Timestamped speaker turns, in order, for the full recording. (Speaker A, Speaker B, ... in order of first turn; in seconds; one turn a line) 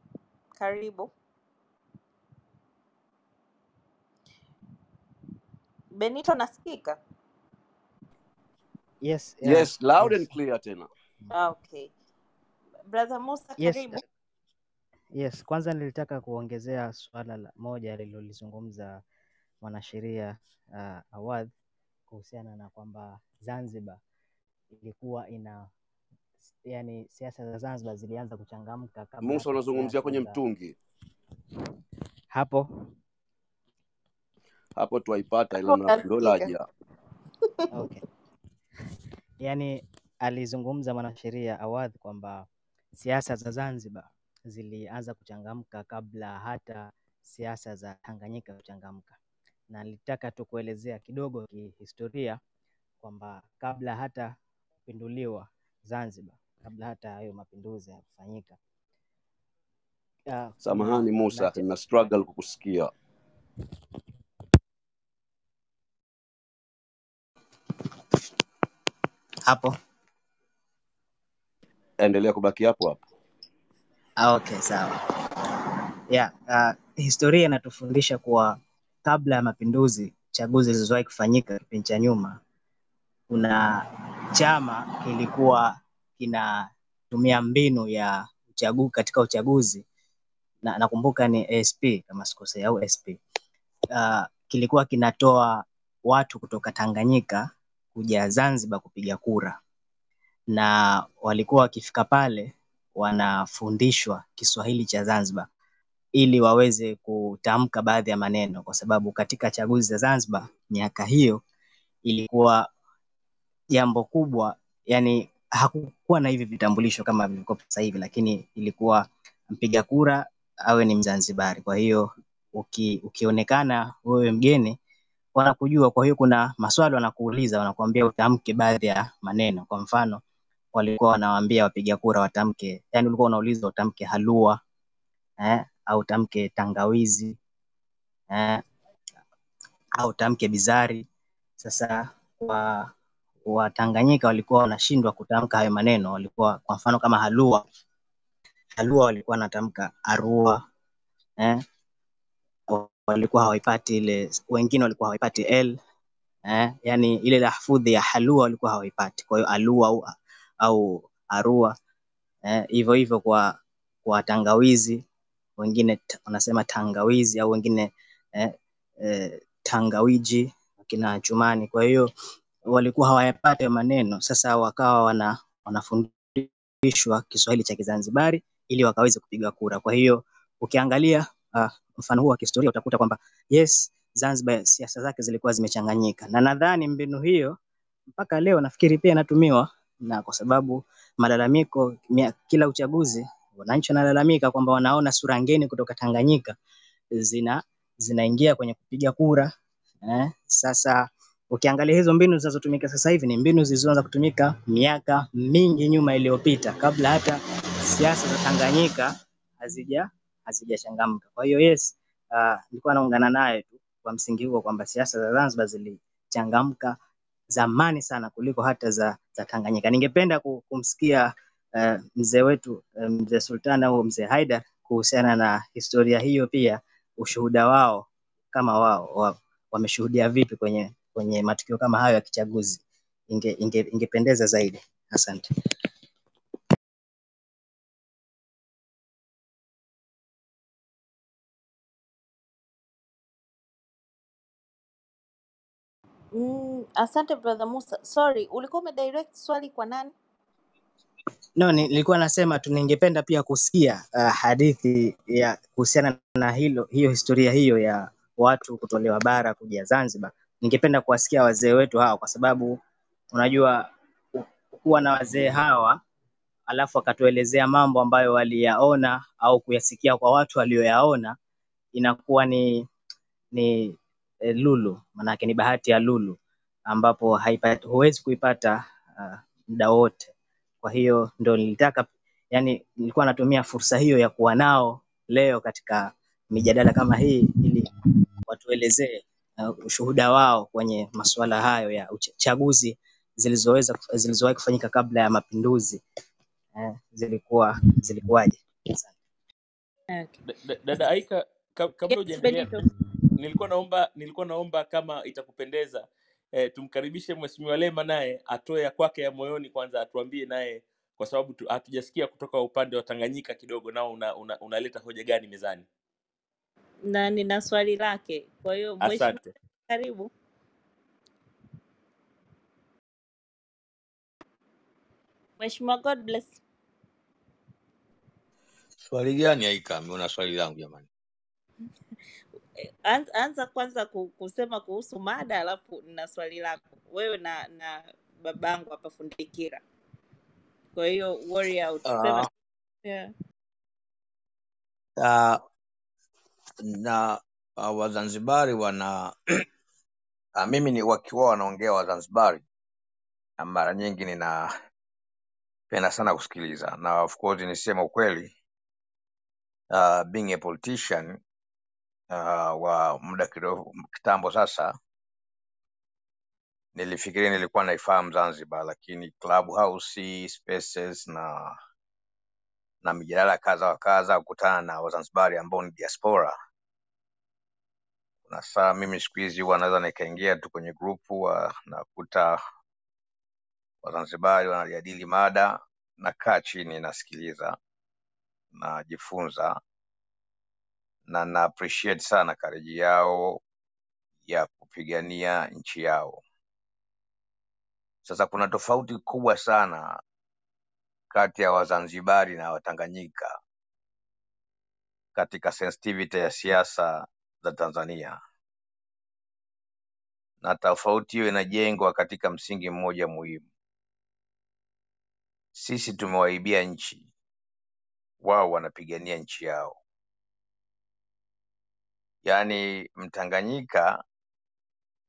Speaker A: 0.6-1.1
Speaker A: 5.9-7.0
Speaker B: 9.0-10.3
Speaker C: 9.4-10.9
Speaker A: 11.3-11.9
Speaker A: 12.9-14.0
Speaker B: 13.6-14.0
Speaker B: 15.2-19.0
Speaker B: 19.6-21.5
Speaker B: 22.1-24.0
Speaker B: 24.8-25.7
Speaker B: 26.6-30.4
Speaker C: 29.2-30.8
Speaker B: 32.3-32.7
Speaker C: 34.7-36.6
Speaker A: 35.5-36.5
Speaker B: 37.7-38.0
Speaker B: 39.4-49.2
Speaker B: 49.7-52.4
Speaker B: 53.0-54.3
Speaker B: 54.9-58.6
Speaker B: 60.3-61.8
Speaker C: 60.6-62.9
Speaker B: 69.5-69.7
Speaker C: 72.0-73.0
Speaker B: 74.2-74.9
Speaker B: 76.1-82.4
Speaker B: 83.3-89.8
Speaker B: 90.6-93.2
Speaker B: 93.9-99.6
Speaker B: 100.5-105.5
Speaker B: 106.2-111.4
Speaker B: 112.0-112.7
Speaker B: 113.7-124.8
Speaker B: 125.3-130.2
Speaker B: 130.7-134.6
Speaker B: 135.4-137.4
Speaker B: 138.3-138.6
Speaker B: 140.0-141.1
Speaker B: 141.6-142.9
Speaker B: 143.4-147.6
Speaker B: 148.8-150.6
Speaker B: 152.7-155.8
Speaker B: 156.5-161.7
Speaker B: 162.4-165.0
Speaker B: 165.6-172.1
Speaker B: 172.7-187.6
Speaker B: 188.1-196.5
Speaker B: 197.1-199.5
Speaker B: 200.0-207.4
Speaker B: 207.9-217.0
Speaker B: 217.5-235.5
Speaker A: 246.3-250.1
Speaker B: 251.6-262.8
Speaker B: 263.3-266.0
Speaker B: 266.7-271.4
Speaker B: 271.9-272.9
Speaker B: 273.5-274.0
Speaker B: 274.5-280.3
Speaker B: 280.8-287.9
Speaker B: 288.5-296.0
Speaker B: 296.7-299.1
Speaker D: 300.4-302.8
Speaker A: 302.1-302.8
Speaker D: 303.4-315.9
Speaker A: 317.0-320.3
Speaker D: 319.0-319.5
Speaker A: 325.6-326.6
Speaker E: 329.0-331.1
Speaker A: 332.8-339.8
Speaker A: 340.9-342.5
Speaker E: 342.0-342.5
Speaker A: 343.0-343.3
Speaker E: 345.2-345.6
Speaker E: 346.8-349.6
Speaker E: 350.5-352.6
Speaker E: 353.6-354.7
Speaker E: 355.9-358.5
Speaker E: 359.9-361.4
Speaker E: 362.3-364.9
Speaker E: 366.9-371.8
Speaker E: 373.0-376.5
Speaker E: 378.5-382.6
Speaker E: 384.0-387.8
Speaker E: 388.7-389.8
Speaker E: 391.3-393.6
Speaker E: 394.4-396.4
Speaker E: 398.2-400.2
Speaker E: 401.3-403.6
Speaker E: 405.3-408.4
Speaker E: 410.6-413.6
Speaker E: 415.7-417.3
Speaker E: 418.4-420.0
Speaker E: 422.4-424.2